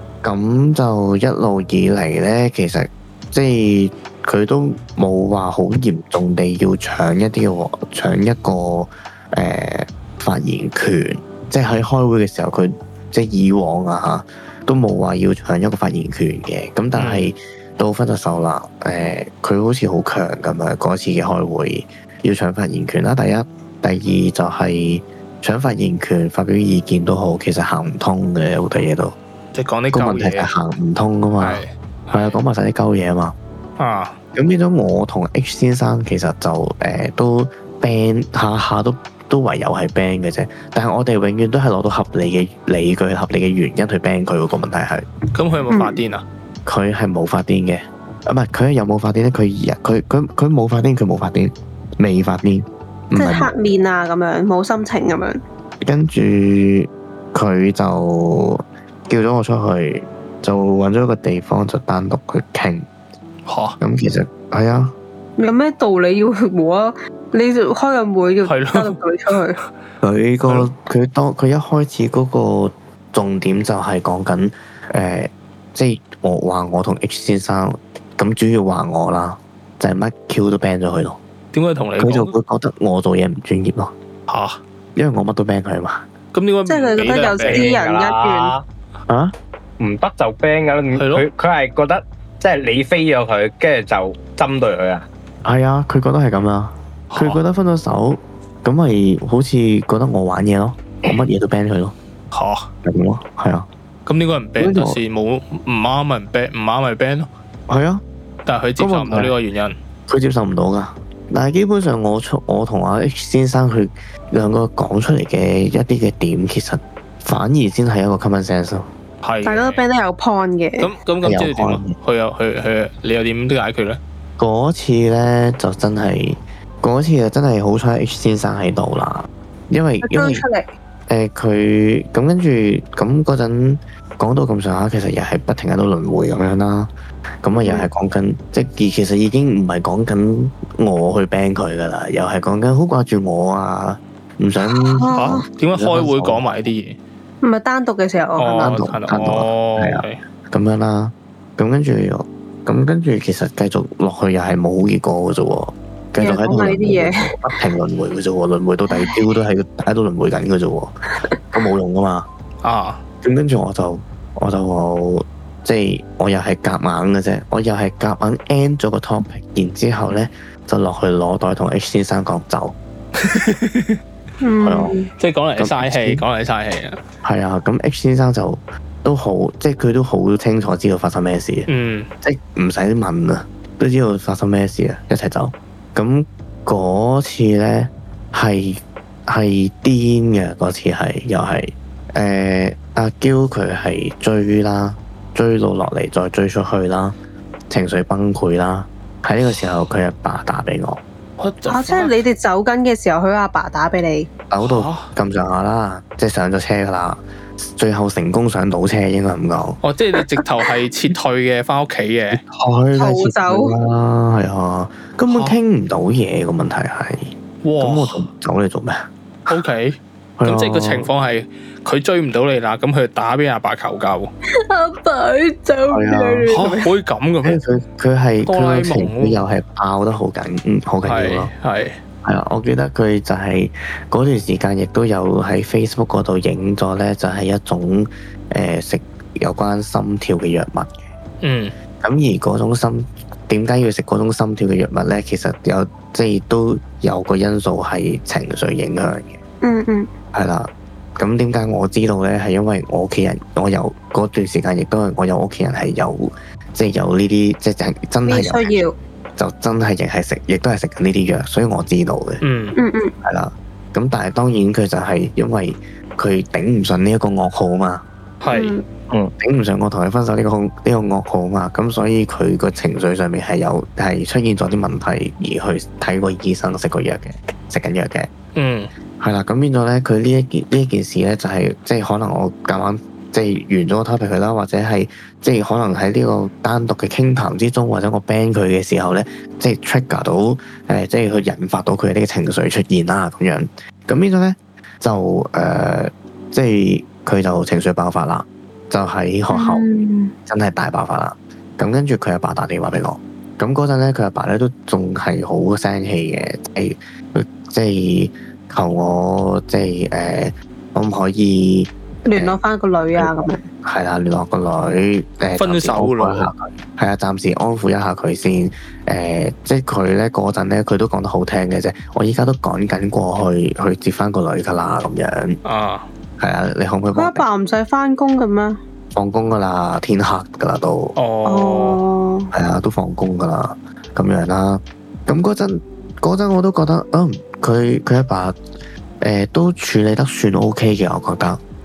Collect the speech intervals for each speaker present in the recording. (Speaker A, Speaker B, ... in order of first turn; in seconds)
Speaker A: 0.2-29.1, 29.9-33.3, 34.3-45.1, 46.6-53.5, 55.8-62.9, 63.8-64.9, 70.0-81.2, 82.0-83.9, 85.0-86.0, 89.1-89.3, 95.4-101.9, 102.8-103.7, 104.6-105.0, 107.7-108.0, 108.8-109.3, 110.1-118.9, 121.2-122.0, 124.4-130.4, 131.1-146.4, 148.6-162.3, 163.2-172.8, 174.6-174.9, 175.6-176.2, 177.2-181.7, 182.2-197.2, 197.7-201.0, 204.5-209.8, 212.3-219.5, 220.4-221.1, 225.8-226.6, 227.4-231.5, 232.2-241.0, 242.0-249.4, 250.3-258.8, 259.4-262.4, 263.2-268.0, 269.4-278.3, 279.2-299.8, 300.4-312.6, 313.1-325.6, 326.4-327.4, 329.1-331.1, 332.5-338.6, 339.2-341.6
Speaker B: 16.9-17.3, 29.5-30.5, 31.4-32.3, 33.8-34.1, 45.3-46.2, 63.5-63.8, 68.5-69.0, 81.5-82.3, 84.3-84.6, 86.3-87.7, 90.9-91.3, 97.1-97.4, 102.3-102.7, 104.0-107.3, 108.5-109.8, 119.2-119.8, 120.8-124.0, 145.1-147.0, 148.4-150.2, 162.6-163.0, 173.2-174.0, 175.1-177.0, 181.7-182.1, 201.4-202.1, 204.6-205.1, 209.8-212.4, 215.3-215.5, 217.6-218.2, 219.5-224.3, 226.5-227.6, 228.4-229.4, 231.0-232.0, 241.4-241.7, 262.4-262.8, 268.4-268.7, 278.5-278.9, 315.6-316.5, 325.6-326.1, 331.1-332.0
Speaker C: 45.7-46.0, 53.1-55.4, 65.4-69.6, 86.7-88.5, 119.4-120.9, 130.0-130.7, 137.5-137.9, 144.7-145.4, 147.4-148.8, 156.2-157.5, 158.9-159.2, 174.4-175.1, 201.7-204.3, 212.9-213.7, 224.5-226.9, 249.6-250.1, 258.2-258.9, 262.8-263.1, 268.5-268.8, 299.5-300.3, 312.2-313.6, 327.1-328.8, 331.4-332.5
Speaker D: 87.4-88.6, 89.8-95.0